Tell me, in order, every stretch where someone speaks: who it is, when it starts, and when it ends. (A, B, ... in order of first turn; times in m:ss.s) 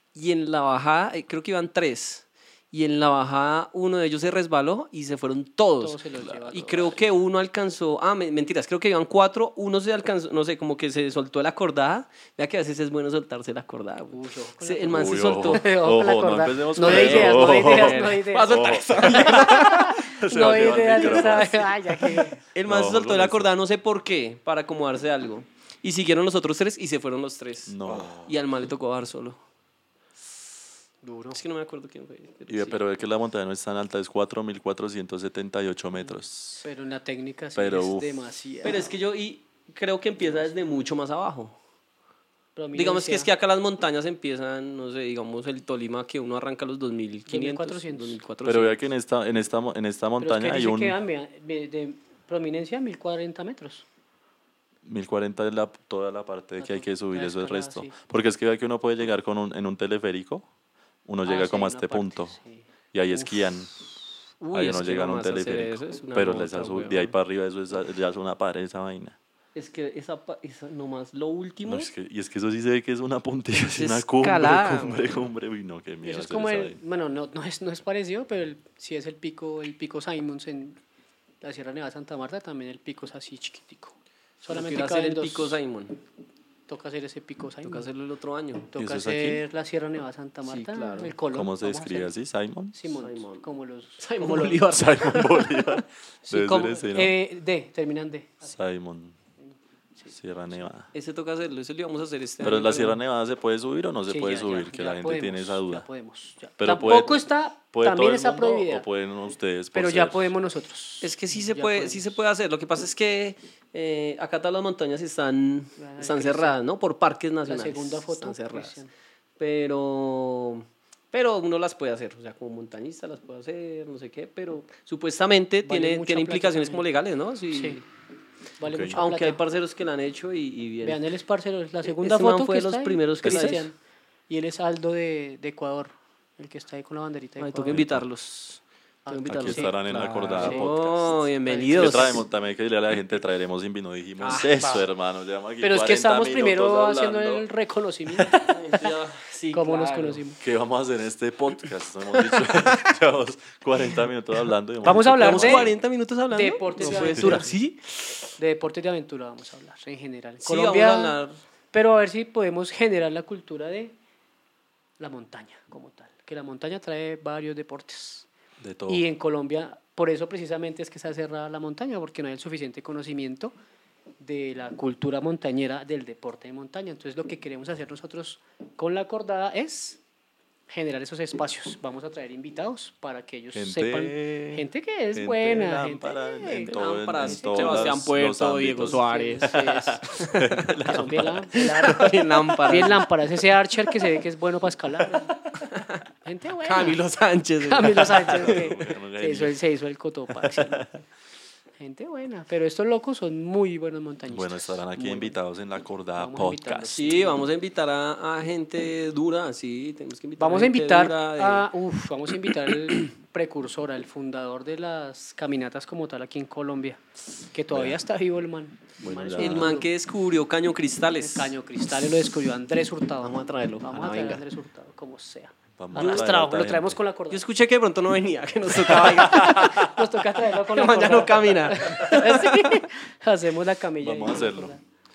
0:00.1-0:15.6 A
0:05.8-0:07.0 B
0:14.1-0:22.4 B
0:14.9-0:23.5 C
0:16.8-0:21.5 A
0:22.5-0:29.4 A
0:27.7-0:28.4 C
0:31.0-0:31.4 B
0:31.3-0:32.8 A
0:32.5-0:36.6 C
0:36.6-0:38.9 B
0:37.6-0:38.2 C
0:38.6-0:41.6 A
0:42.6-0:43.3 B
0:42.8-0:48.8 A
0:47.3-0:48.2 B
0:48.4-0:51.0 C
0:50.2-0:53.8 B
0:54.8-1:00.5 C
0:56.6-0:57.9 B
1:01.1-1:02.4 C
1:01.2-1:03.5 B
1:02.9-1:03.7 C
1:04.4-1:07.1 A
1:04.5-1:09.2 C
1:09.6-1:11.9 A
1:11.6-1:16.8 C
1:13.6-1:15.0 A
1:16.0-1:20.8 B
1:21.4-1:25.6 B
1:24.5-1:26.0 A
1:26.7-1:27.9 B
1:27.6-1:28.7 A
1:28.7-1:32.1 B
1:28.8-1:29.4 C
1:30.4-1:31.2 A
1:31.3-1:32.7 C
1:32.7-1:34.7 B
1:32.9-1:33.4 A
1:34.0-1:35.7 A
1:34.6-1:37.1 C
1:36.3-1:38.5 B
1:38.4-1:39.2 C
1:40.1-1:40.9 C
1:40.9-1:42.9 A
1:42.4-1:42.9 B
1:42.4-1:45.8 C
1:44.1-1:48.9 B
1:46.6-1:50.3 C
1:49.7-1:52.2 B
1:51.0-1:58.8 A
1:55.8-1:56.6 B
1:57.4-1:58.9 B
1:59.4-2:07.8 A
2:05.6-2:06.9 B
2:07.5-2:07.8 B
2:08.6-2:09.4 B
2:08.6-2:09.0 C
2:08.9-2:11.0 A
2:10.8-2:13.8 B
2:11.9-2:13.7 A
2:13.2-2:13.6 C
2:14.3-2:17.8 B
2:17.4-2:22.2 A
2:17.7-2:18.0 C
2:19.0-2:22.2 B
2:19.3-2:21.1 C
2:21.7-2:27.5 C
2:24.2-2:24.6 A
2:24.3-2:24.9 B
2:25.6-2:28.9 B
2:28.5-2:30.2 A
2:29.5-2:30.4 B
2:30.4-2:35.8 C
2:32.1-2:32.9 A
2:34.8-2:35.7 B
2:35.2-2:38.2 A
2:36.3-2:37.5 B
2:37.1-2:37.5 C
2:38.4-2:41.2 B
2:40.4-2:41.3 A
2:41.7-2:43.9 B
2:45.0-2:48.3 B
2:48.6-2:49.0 C
2:48.9-2:53.5 B
2:54.2-3:00.0 B
3:00.7-3:08.0 B
3:03.5-3:11.5 C
3:06.5-3:13.1 A
3:08.8-3:10.1 B
3:10.8-3:15.4 B
3:13.9-3:14.2 A
3:15.1-3:16.0 A
3:16.2-3:17.0 B
3:16.6-3:18.7 A
3:17.6-3:20.9 B
3:18.2-3:19.5 C
3:20.4-3:20.9 C
3:21.8-3:25.4 B
3:24.3-3:27.2 C
3:26.2-3:27.4 B
3:26.9-3:31.7 A
3:30.4-3:39.9 B
3:32.4-3:33.0 A
3:37.7-3:38.0 C
3:39.0-3:39.8 C
3:39.4-3:41.5 A
3:41.2-3:47.4 B
3:43.2-3:44.4 A
3:45.8-3:47.0 C
3:45.9-3:46.3 A
3:47.3-3:50.0 A
3:48.7-3:49.9 C
3:49.5-3:54.8 B
3:50.5-3:52.8 A
3:54.0-3:54.7 C